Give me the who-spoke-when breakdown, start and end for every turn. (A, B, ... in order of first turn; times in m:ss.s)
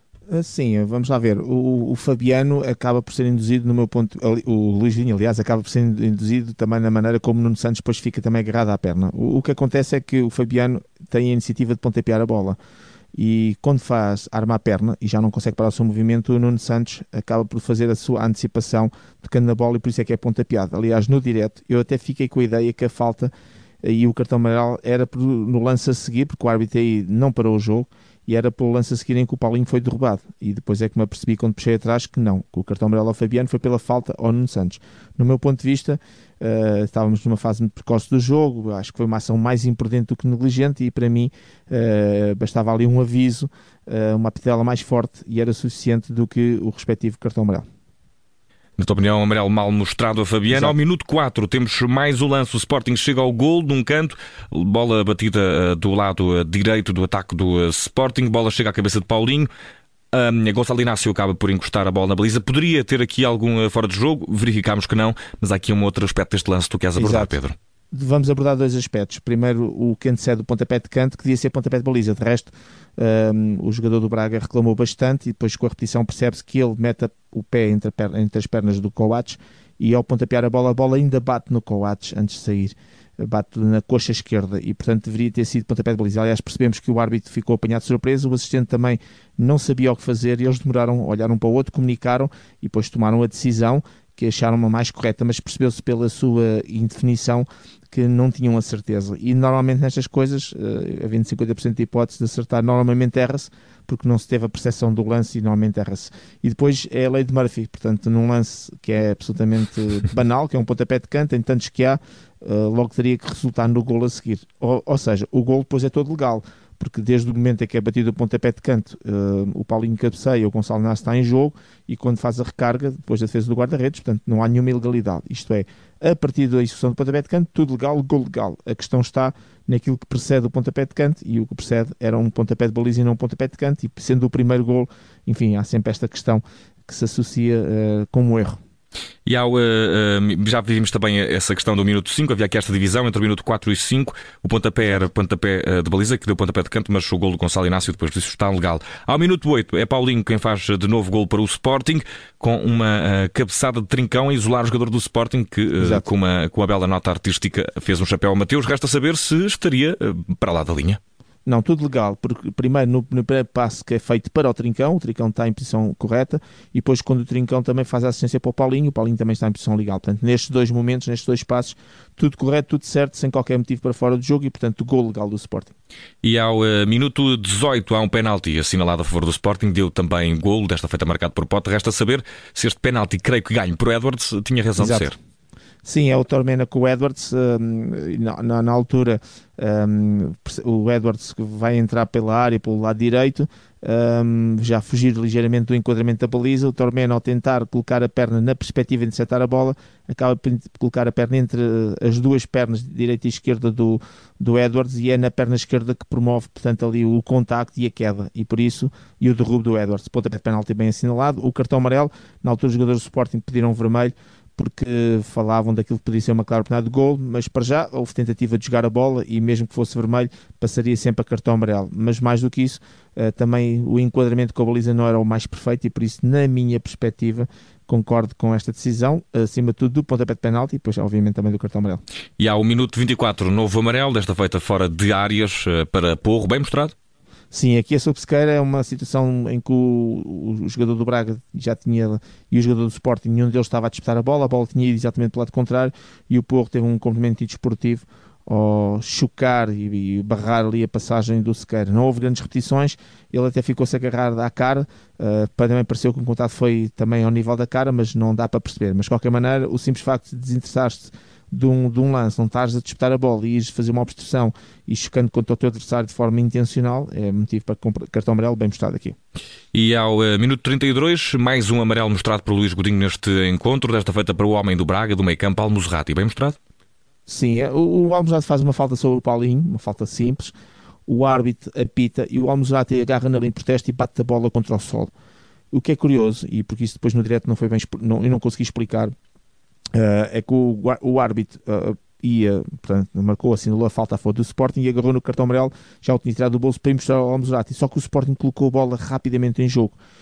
0:00.3-0:12.6 A
0:13.1-0:23.3 A
0:23.8-0:47.6 A
0:48.8-0:59.5 B
0:50.5-0:50.8 A
1:00.1-1:07.6 B
1:07.0-1:07.3 A
1:07.9-2:18.6 A
2:19.3-2:41.0 B
2:35.8-2:36.0 A
2:41.5-2:55.7 A
2:56.2-3:05.2 B
3:04.8-3:05.1 A
3:05.8-3:52.0 A
3:52.4-3:56.9 B
3:57.5-4:29.2 A
4:29.7-4:36.6 B
4:37.3-4:40.5 A
4:41.1-4:45.1 A
4:45.7-4:49.1 A
4:49.9-5:00.0 A